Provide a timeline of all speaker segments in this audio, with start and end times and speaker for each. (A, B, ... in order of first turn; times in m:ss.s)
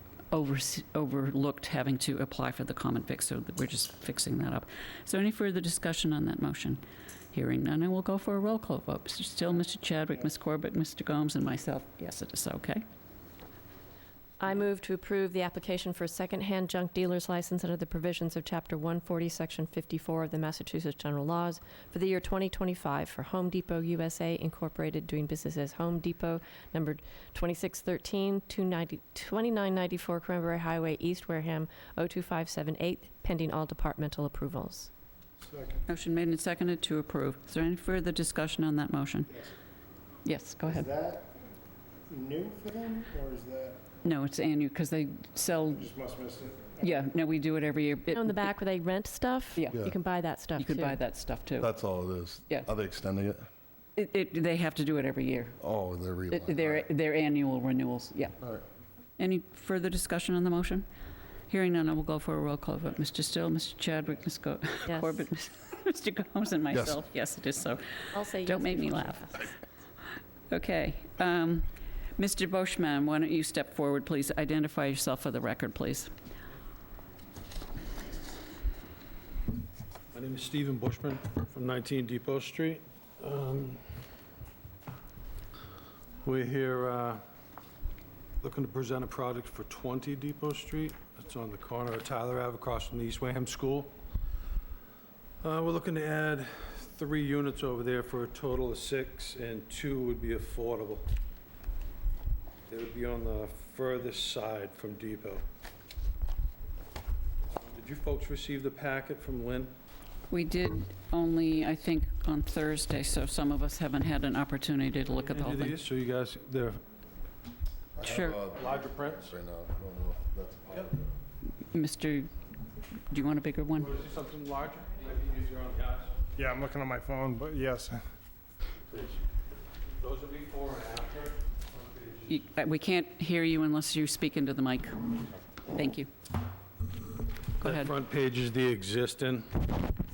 0:00.3-0:12.8 A
0:14.4-0:34.9 B
0:35.4-0:35.8 C
0:35.9-0:39.3 A
0:39.3-0:39.5 C
0:40.2-0:40.9 A
0:40.6-0:41.4 C
0:42.1-0:44.0 C
0:44.0-0:45.9 A
0:45.7-0:47.1 C
0:46.8-0:48.5 A
0:48.1-0:51.0 B
0:50.6-0:51.7 A
0:51.6-0:53.5 D
0:54.0-0:55.6 A
0:55.6-0:56.9 D
0:56.3-0:58.4 A
0:59.2-1:00.9 A
1:01.5-1:09.5 A
1:04.9-1:05.2 B
1:08.1-1:09.4 B
1:10.5-1:16.1 A
1:20.1-1:24.0 E
1:26.2-1:27.2 E
1:28.4-1:33.9 E
1:35.4-1:41.1 E
1:42.7-1:45.4 E
1:47.6-1:49.7 E
1:50.3-1:55.8 A
1:55.3-1:56.8 E
1:58.0-2:01.1 D
1:58.0-1:58.4 A
1:58.5-1:59.3 E
2:01.7-2:02.3 A
2:03.1-2:04.0 A
2:03.8-2:06.2 E
2:06.4-2:08.1 C
2:08.9-2:09.2 E
2:09.8-2:12.3 E
2:12.3-2:16.1 A
2:17.6-2:19.7 E
2:17.6-2:17.9 A